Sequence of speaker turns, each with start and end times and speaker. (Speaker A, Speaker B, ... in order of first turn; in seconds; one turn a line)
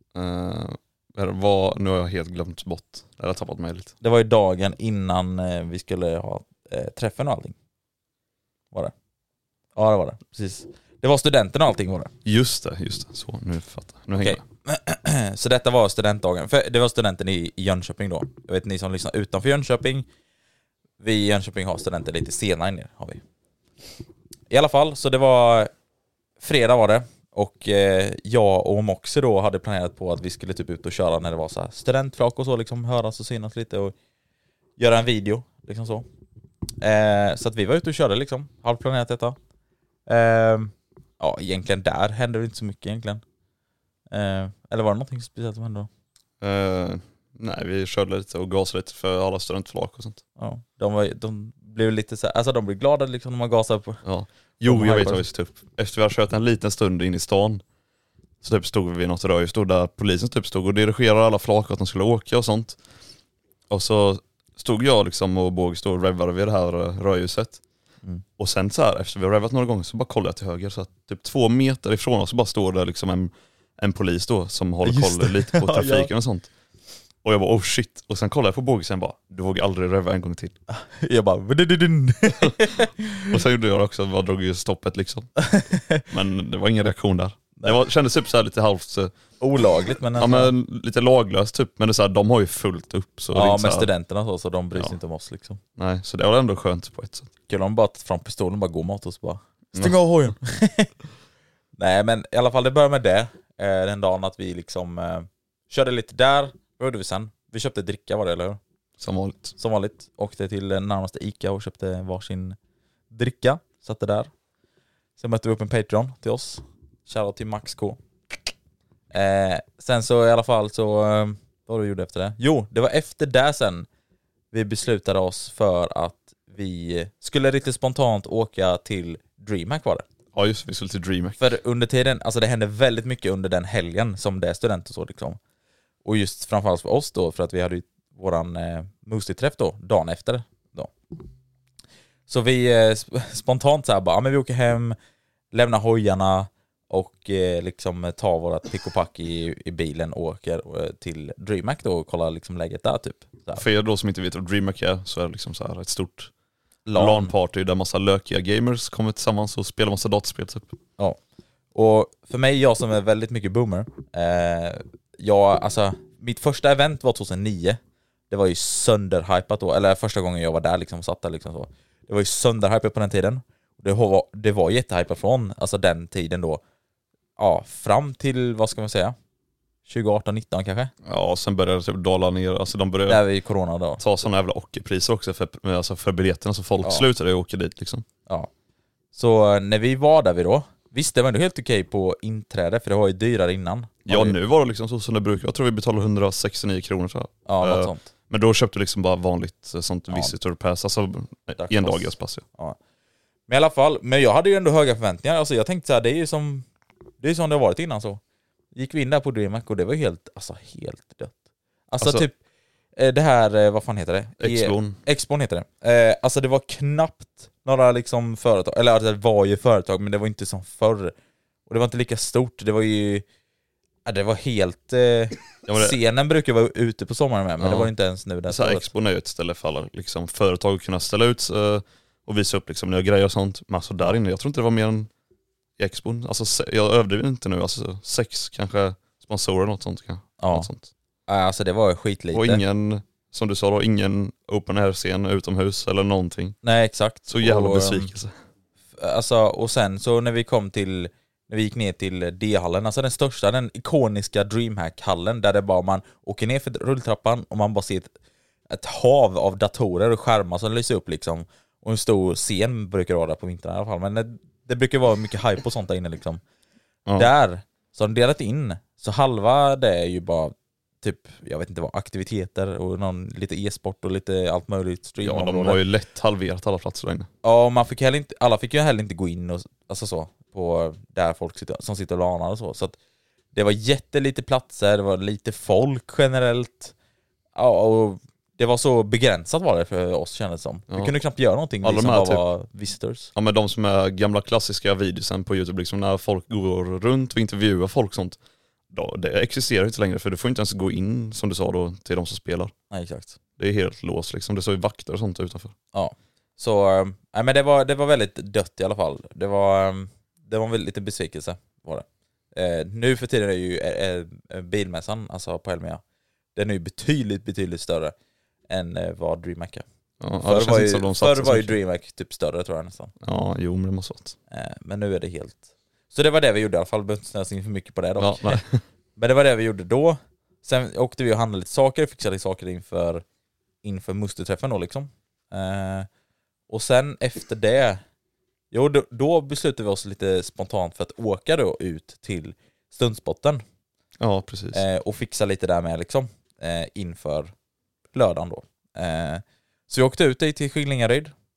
Speaker A: 0.1-3.9
Speaker B: 4.0-7.6
Speaker B: 9.8-12.1
Speaker A: 12.2-14.4
Speaker B: 14.2-20.1
Speaker B: 21.0-23.2
Speaker B: 24.5-25.7
Speaker B: 26.4-34.0
Speaker B: 34.8-36.1
Speaker B: 36.8-39.4
Speaker B: 40.1-43.2
Speaker B: 44.1-45.9
Speaker A: 46.4-50.2
Speaker B: 50.4-54.0
Speaker A: 54.0-57.6
Speaker B: 54.6-55.3
Speaker A: 58.4-62.8
Speaker A: 63.7-67.6
Speaker A: 68.4-76.5
Speaker B: 74.8-76.1
Speaker A: 77.2-80.5
Speaker B: 80.7-83.4
Speaker A: 83.3-85.4
Speaker B: 85.4-86.0
Speaker A: 86.0-89.1
Speaker B: 89.4-90.5
Speaker A: 90.2-93.9
Speaker B: 93.3-95.6
Speaker A: 95.8-97.3
Speaker B: 97.5-100.9
Speaker B: 101.8-108.6
Speaker A: 109.0-109.5
Speaker B: 109.6-112.6
Speaker B: 113.1-114.3
Speaker B: 115.2-118.0
Speaker B: 119.1-123.9
Speaker B: 124.5-130.1
Speaker A: 130.3-131.4
Speaker B: 131.4-135.4
Speaker B: 136.0-140.9
Speaker B: 142.3-145.0
Speaker B: 145.5-153.6
Speaker A: 153.6-156.3
Speaker B: 156.9-157.3
Speaker A: 156.9-160.8
Speaker B: 161.7-167.8
Speaker B: 168.3-176.6
Speaker B: 177.4-179.2
Speaker B: 179.9-180.9
Speaker A: 181.1-183.2
Speaker B: 183.1-184.0
Speaker A: 184.0-188.1
Speaker B: 189.1-194.4
Speaker A: 194.1-202.4
Speaker B: 197.5-198.1
Speaker B: 200.1-200.3
Speaker B: 201.6-202.8
Speaker B: 203.5-206.7
Speaker B: 207.2-208.2
Speaker B: 208.7-211.4
Speaker B: 211.9-212.3
Speaker A: 212.0-212.3
Speaker B: 213.0-221.2
Speaker A: 214.4-215.0
Speaker B: 221.7-223.2
Speaker B: 224.1-228.9
Speaker A: 225.7-226.0
Speaker A: 227.6-227.9
Speaker A: 228.5-235.1
Speaker A: 235.8-240.9
Speaker B: 240.4-240.7
Speaker B: 241.3-242.6
Speaker A: 242.3-246.6
Speaker B: 246.6-248.1
Speaker A: 247.3-248.3
Speaker B: 249.0-258.1
Speaker B: 258.7-266.4
Speaker B: 267.2-275.8
Speaker A: 275.2-277.3
Speaker B: 277.4-283.0
Speaker B: 283.5-286.9
Speaker B: 287.6-293.3
Speaker A: 290.9-291.2
Speaker A: 291.8-292.4
Speaker A: 293.4-298.4
Speaker A: 298.9-302.7
Speaker B: 302.9-303.4
Speaker A: 303.6-305.7
Speaker B: 305.9-316.0
Speaker B: 316.6-318.1
Speaker B: 318.7-319.9
Speaker A: 320.2-321.8
Speaker B: 320.4-323.1
Speaker A: 323.2-324.4
Speaker B: 324.5-328.6
Speaker A: 328.2-328.8
Speaker B: 329.2-333.2
Speaker B: 333.8-336.1
Speaker B: 336.7-338.0
Speaker B: 338.7-343.6
Speaker A: 344.2-344.8
Speaker B: 344.7-347.5
Speaker B: 348.1-351.3